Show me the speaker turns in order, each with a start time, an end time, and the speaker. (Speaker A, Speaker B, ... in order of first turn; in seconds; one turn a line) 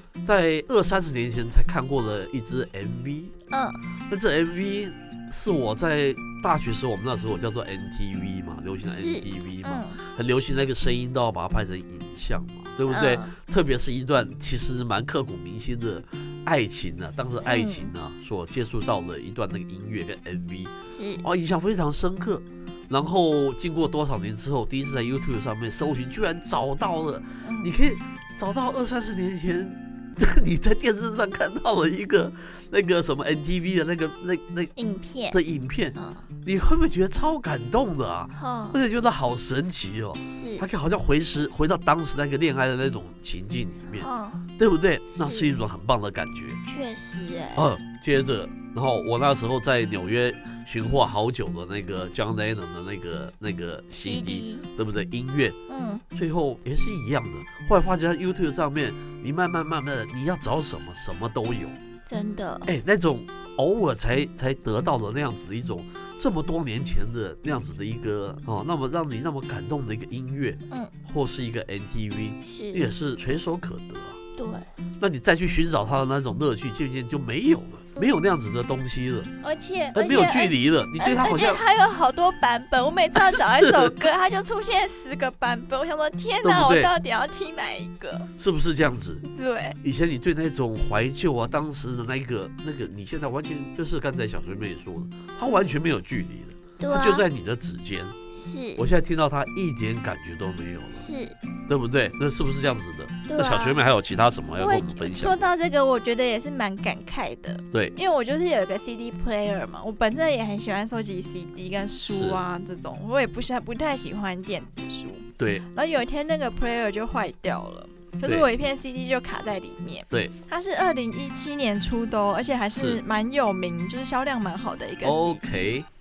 Speaker A: 0.2-3.3
Speaker B: 3.5-3.8
Speaker A: 4.1-34.7
Speaker B: 8.8-10.0
Speaker B: 12.8-13.3
Speaker B: 17.4-17.9
Speaker B: 20.8-21.2
Speaker B: 27.4-27.7
Speaker B: 34.8-35.4
Speaker A: 35.3-46.6
Speaker B: 36.0-36.3
Speaker B: 38.3-38.8
Speaker B: 40.2-40.6
Speaker B: 44.0-44.4
Speaker B: 45.1-45.5
Speaker B: 46.6-47.6
Speaker A: 47.5-55.6
Speaker B: 54.0-54.7
Speaker B: 55.7-56.0
Speaker A: 56.1-61.8
Speaker B: 62.0-62.7
Speaker A: 62.6-74.2
Speaker B: 72.4-72.9
Speaker B: 74.4-74.7
Speaker A: 75.0-79.3
Speaker B: 79.4-88.3
Speaker A: 79.9-81.6
Speaker A: 83.1-84.0
Speaker A: 86.4-86.9
Speaker A: 88.4-89.2
Speaker B: 89.2-89.8
Speaker A: 89.8-98.2
Speaker B: 96.8-97.2
Speaker B: 98.3-98.8
Speaker A: 98.8-101.1
Speaker B: 100.9-101.4
Speaker A: 101.7-105.5
Speaker B: 103.3-103.8
Speaker B: 104.6-125.4
Speaker A: 112.0-112.4
Speaker A: 115.4-115.6
Speaker A: 122.7-123.0
Speaker A: 125.0-125.9